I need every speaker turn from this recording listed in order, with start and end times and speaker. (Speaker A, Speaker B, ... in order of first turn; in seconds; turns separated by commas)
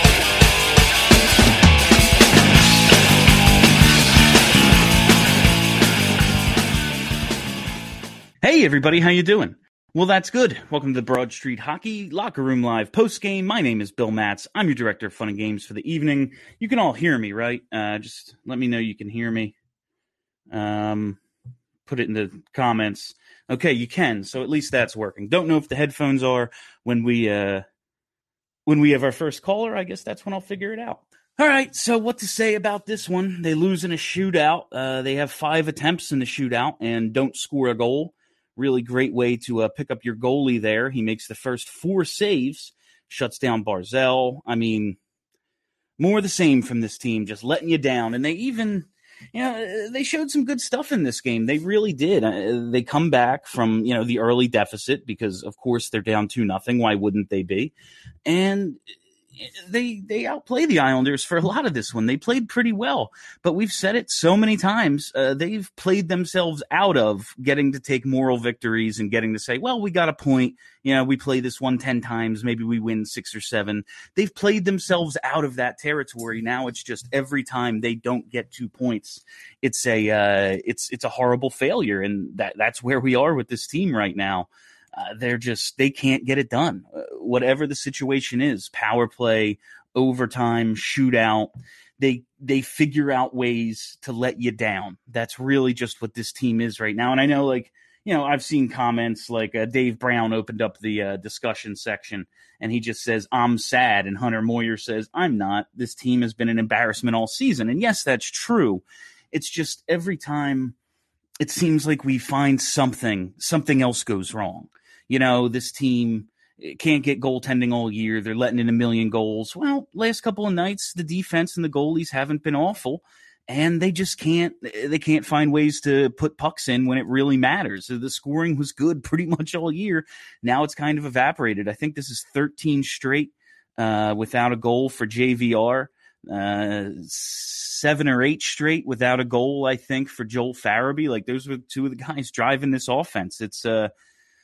Speaker A: 8.4-19.5, Speaker A: 20.5-21.2, Speaker A: 21.9-27.6, Speaker A: 28.7-45.0, Speaker A: 46.0-57.7, Speaker A: 58.3-58.8, Speaker A: 59.4-110.8, Speaker A: 111.4-143.9